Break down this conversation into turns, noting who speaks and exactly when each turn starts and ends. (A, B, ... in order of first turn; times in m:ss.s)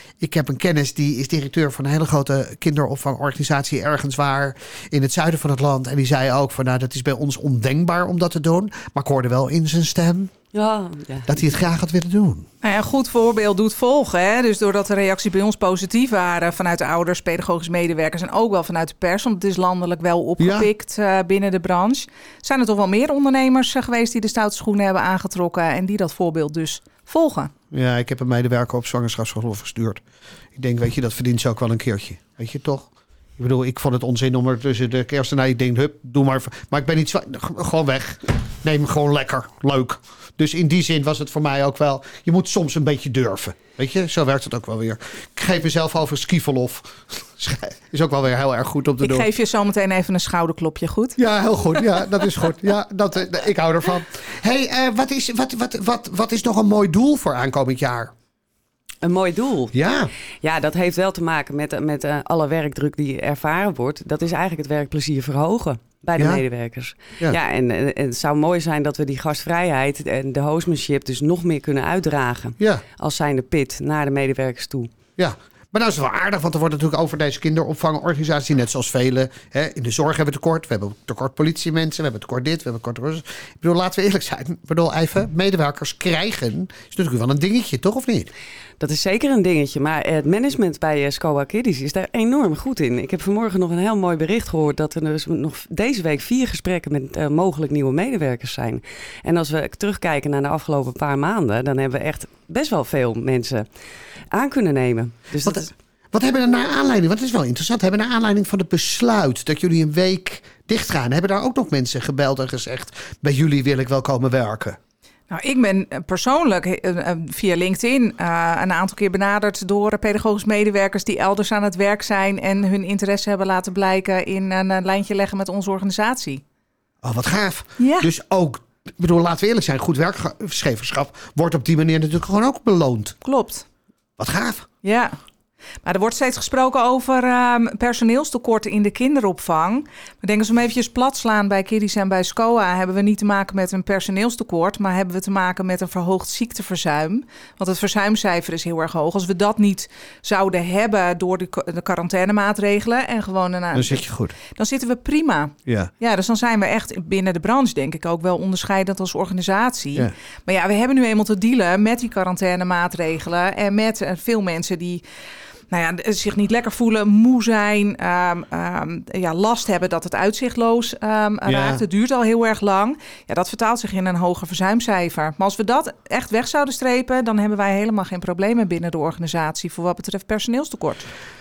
0:00.2-0:10.3 A
0:10.5-0:11.3 B
0:11.3-0:12.5 A
0:12.6-0:27.5 C
0:20.4-0:20.7 A
0:27.7-0:30.0 A
0:30.6-0:49.3 A
0:49.0-0:51.2 C
0:51.2-0:58.1 A
0:59.0-0:59.7 B
0:59.7-1:00.1 A
1:00.4-1:14.9 B
1:06.2-1:06.4 A
1:12.6-1:12.8 A
1:15.2-1:28.3 A
1:28.8-1:43.7 B
1:44.3-1:45.7 B
1:45.4-1:54.8 A
1:55.3-2:06.4 C
2:07.0-2:13.2 A
2:07.8-2:08.1 C
2:13.2-2:13.6 C
2:14.2-2:14.7 A
2:14.8-2:15.2 C
2:15.8-2:45.0 C
2:33.7-2:34.4 A
2:35.7-2:35.9 A
2:45.7-3:01.1 C
2:51.4-2:51.8 A